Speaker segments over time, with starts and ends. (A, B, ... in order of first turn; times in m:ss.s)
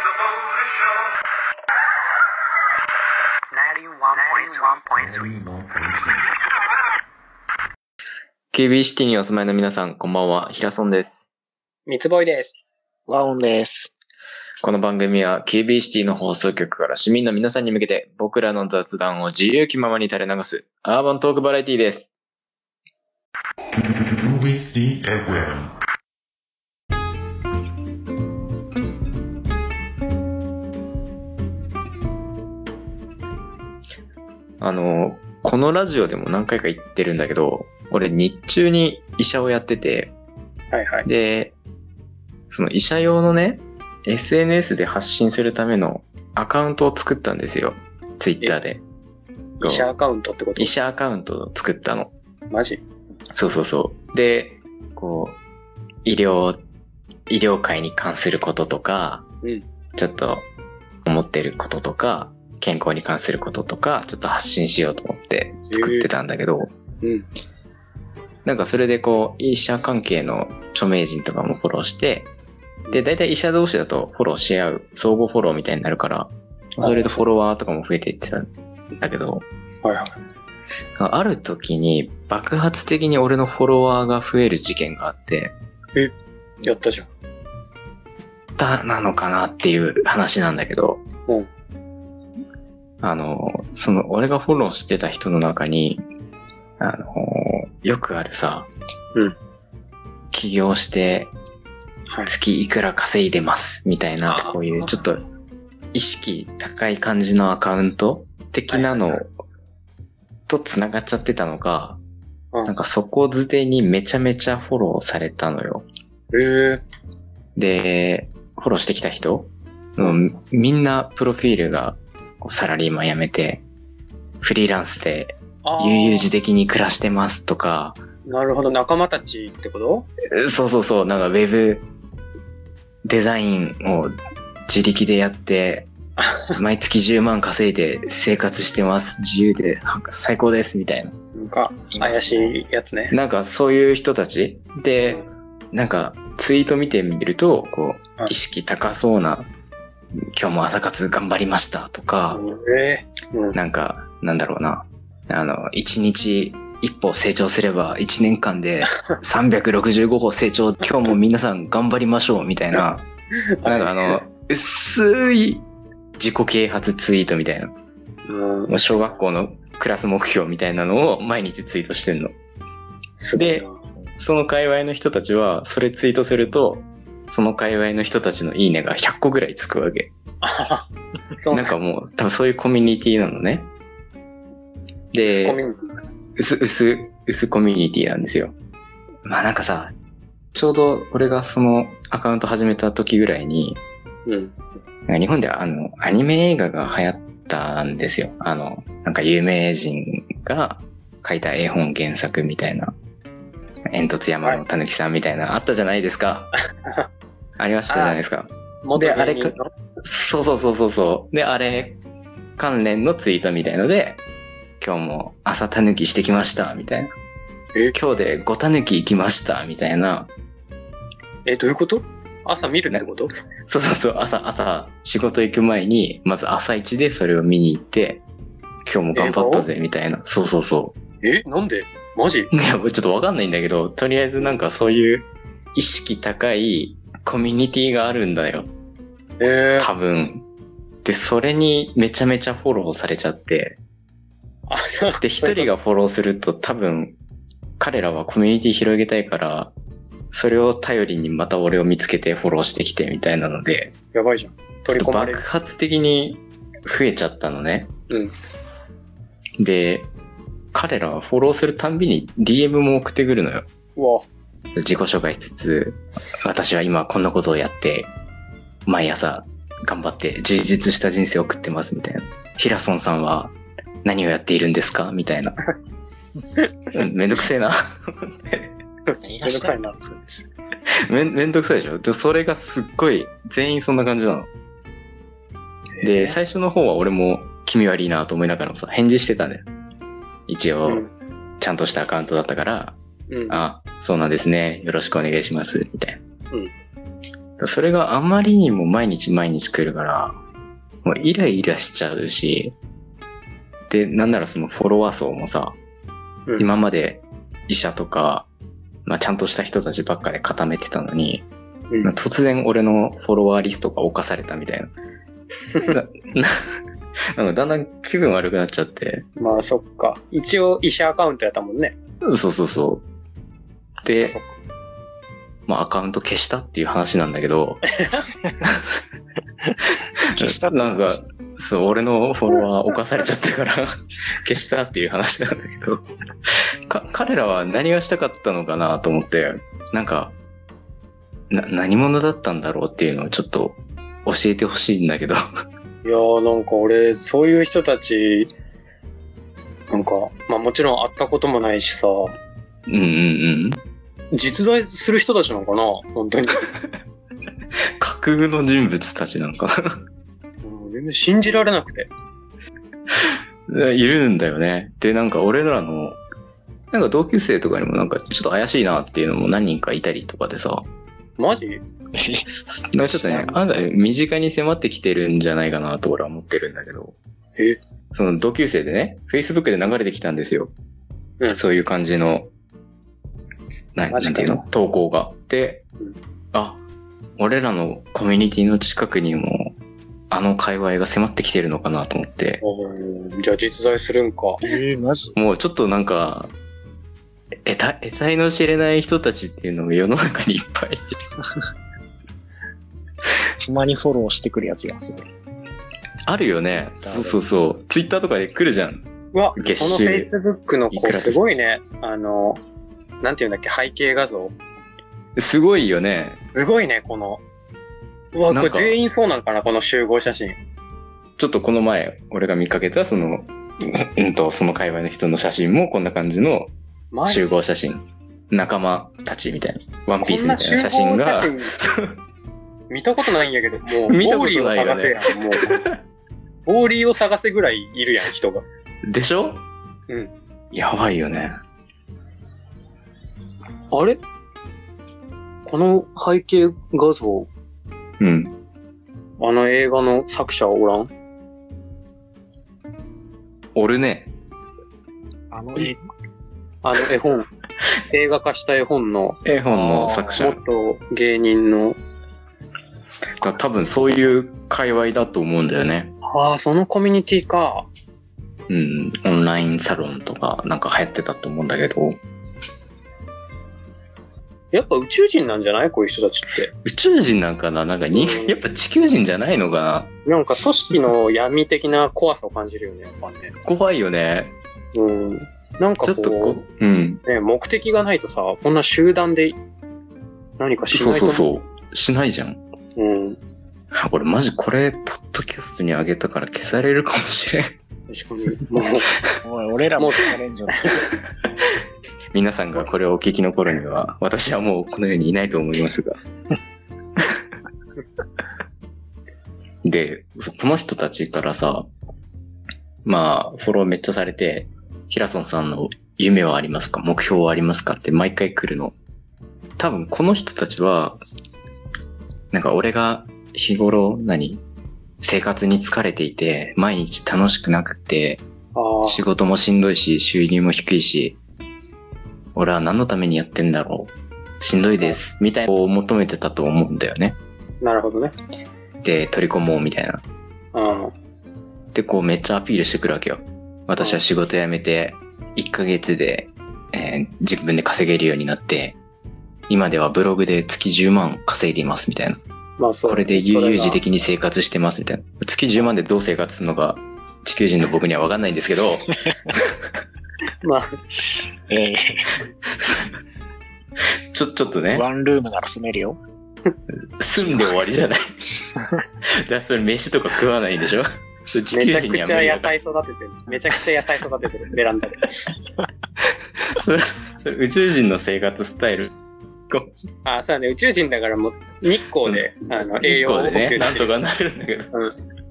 0:03.5-0:05.4 A
0:05.0-0:06.1 B
0:08.5-0:11.3 C
0:11.8-0:12.6 A
0:13.1-0:13.9 D
0:14.6-0:22.1 C
0:23.8-0:25.7 B
0:34.6-0:40.1 C
0:40.7-0:41.1 A
0:41.0-0:41.6 C
0:42.5-0:48.8 C
0:49.6-0:50.7 A
0:49.6-0:49.9 C
0:50.6-0:52.1 C
0:52.5-0:52.8 A
0:53.3-0:55.4 C
0:56.0-0:56.6 C
0:57.3-0:59.2 C
1:00.0-1:00.5 C
1:01.0-1:06.7 C
1:05.6-1:06.1 A
1:07.0-1:07.3 A
1:08.4-1:12.3 C
1:12.9-1:19.4 C
1:16.8-1:17.2 A
1:19.8-1:20.2 A
1:21.0-1:25.5 C
1:25.9-1:27.1 A
1:28.6-1:31.0 C
1:33.0-1:36.0 C
1:36.8-1:38.7 C
1:40.3-1:41.3 C
1:42.1-1:42.3 A
1:42.2-1:45.2 C
1:44.2-1:44.8 A
1:45.9-1:49.3 C
1:48.7-1:49.1 A
1:50.5-1:52.0 C
1:52.6-1:55.9 C
1:56.3-1:56.8 A
1:57.6-2:03.6 C
2:04.4-2:08.0 C
2:05.6-2:06.3 A
2:08.2-2:10.1 A
2:10.3-2:11.9 C
2:13.0-2:14.2 C
2:14.7-2:15.9 C
2:16.2-2:16.6 A
2:16.5-2:21.1 C
2:21.3-2:23.1 A
2:21.9-2:22.5 D
2:23.1-2:29.5 C
2:30.3-2:32.4 C
2:32.3-2:33.6 A
2:33.5-2:43.1 C
2:43.6-2:44.2 A
2:43.6-2:45.6 C
2:46.2-2:47.7 C
2:48.3-2:49.2 A
2:48.7-2:52.3 C
2:53.2-2:53.8 A
2:53.3-2:53.6 C
2:54.2-3:00.1 C
3:00.4-3:01.7 A
3:01.5-3:03.7 C
3:05.1-3:05.6 C
3:05.2-3:06.0 A
3:06.4-3:08.5 C
3:09.2-3:09.9 C
3:10.5-3:13.8 C
3:14.2-3:14.5 A
3:15.1-3:22.9 C
3:23.9-3:26.5 C
3:27.6-3:32.0 C
3:27.9-3:28.2 A
3:28.8-3:29.7 A
3:32.6-3:34.2 C
3:34.8-3:37.1 C
3:37.9-3:40.3 C
3:41.4-3:43.3 A
3:43.7-3:48.2 C
3:48.8-3:51.0 C
3:49.1-3:49.7 A
3:51.2-3:52.5 A
3:52.5-3:58.7 C
3:59.4-3:59.9 A
3:59.8-4:00.4 C
4:01.0-4:03.8 C
4:04.7-4:05.7 A
4:05.2-4:07.2 C
4:07.8-4:09.7 C
4:10.3-4:13.9 C
4:14.1-4:15.4 A
4:14.9-4:17.9 C
4:18.1-4:18.3 A
4:19.6-4:20.1 C
4:20.7-4:23.7 C
4:24.0-4:24.2 A
4:24.8-4:28.1 C
4:28.8-4:35.6 C
4:36.9-4:38.7 C
4:39.2-4:40.4 D
4:39.4-4:40.0 A
4:41.1-4:44.5 C
4:46.0-4:49.6 C
4:46.0-4:46.4 D
4:50.5-4:51.1 C
4:50.8-4:51.1 A
4:51.6-4:53.0 C
4:53.3-4:53.6 A
4:53.5-4:56.2 C
4:57.6-5:00.4 C
5:01.0-5:02.8 C
5:03.9-5:05.8 C
5:06.6-5:08.5 C
5:09.0-5:11.5 C
5:12.0-5:14.9 C
5:15.8-5:16.5 C
5:17.4-5:19.3 C
5:19.4-5:21.9 A
5:22.2-5:23.0 C
5:24.0-5:24.4 C
5:24.2-5:24.5 A
5:25.7-5:27.8 C
5:28.6-5:29.0 C
5:30.4-5:31.2 D
5:30.4-5:33.9 C
5:34.4-5:36.0 C
5:36.9-5:40.4 C
5:41.5-5:45.4 C
5:46.0-5:48.5 A
5:49.9-5:52.4 A
5:52.9-5:53.8 C
5:54.3-5:56.6 A
5:58.0-6:00.0 C
6:00.6-6:02.1 A
6:03.7-6:06.2 C
6:06.9-6:10.9 C
6:11.4-6:11.8 A
6:12.1-6:12.5 D
6:12.7-6:17.2 C
6:13.0-6:13.6 D
6:18.1-6:20.7 C
6:21.5-6:22.5 C
6:23.9-6:25.8 C
6:24.1-6:24.6 A
6:26.5-6:26.8 C
6:27.4-6:29.8 C
6:30.3-6:32.6 C
6:32.6-6:34.7 A
6:34.6-6:35.4 D
6:35.4-6:36.5 C
6:37.6-6:41.1 C
6:43.6-6:45.3 D
6:46.3-6:49.0 C
6:46.9-6:47.4 D
6:49.3-6:52.6 A
6:49.6-6:50.3 C
6:50.9-6:51.4 C
6:53.2-6:54.5 A
6:55.4-6:56.4 C
6:56.5-6:57.4 A
6:58.3-7:00.6 A
6:58.5-6:59.0 C
7:01.4-7:06.7 C
7:07.1-7:07.4 A
7:07.2-7:12.2 C
7:10.2-7:11.7 A
7:12.9-7:15.8 A
7:14.1-7:16.0 C
7:16.6-7:18.6 A
7:19.1-7:19.6 C
7:20.7-7:21.6 C
7:23.9-7:24.2 A
7:25.6-7:27.5 A
7:28.2-7:28.6 C
7:29.4-7:31.1 A
7:33.7-7:34.3 C
7:35.5-7:36.0 D
7:36.8-7:37.5 A
7:38.1-7:42.0 A
7:39.4-7:40.6 C
7:43.4-7:46.1 C
7:46.2-7:47.9 A
7:48.7-7:52.2 C
7:54.7-7:56.7 A
7:56.8-8:00.1 C
7:58.1-7:58.6 A
8:00.2-8:03.5 A
8:03.6-8:04.5 C
8:04.9-8:06.6 A
8:06.0-8:07.2 C
8:07.2-8:09.6 A
8:10.6-8:11.5 A
8:10.9-8:12.6 C
8:13.0-8:13.4 A
8:13.9-8:17.7 C
8:18.1-8:19.1 A
8:19.4-8:20.9 D
8:20.0-8:20.3 A
8:22.3-8:26.2 C
8:29.8-8:31.9 C
8:33.0-8:39.0 C
8:39.8-8:41.2 C
8:42.5-8:44.6 C
8:45.2-8:48.4 C
8:48.7-8:49.2 A
8:49.0-8:51.4 C
8:52.5-8:57.4 C
8:57.8-8:58.4 A
8:59.0-9:00.2 C
9:00.7-9:01.1 A
9:01.9-9:09.0 C
9:09.7-9:12.4 C
9:12.8-9:14.0 A
9:13.0-9:19.7 C
9:20.6-9:21.0 A
9:21.7-9:22.4 D
9:24.3-9:25.1 C
9:24.9-9:26.2 D
9:27.2-9:28.3 C
9:27.4-9:27.7 D
9:29.4-9:32.8 C
9:31.7-9:35.3 A
9:36.6-9:39.1 C
9:39.7-9:40.1 C
9:40.2-9:44.1 A
9:43.0-9:44.9 C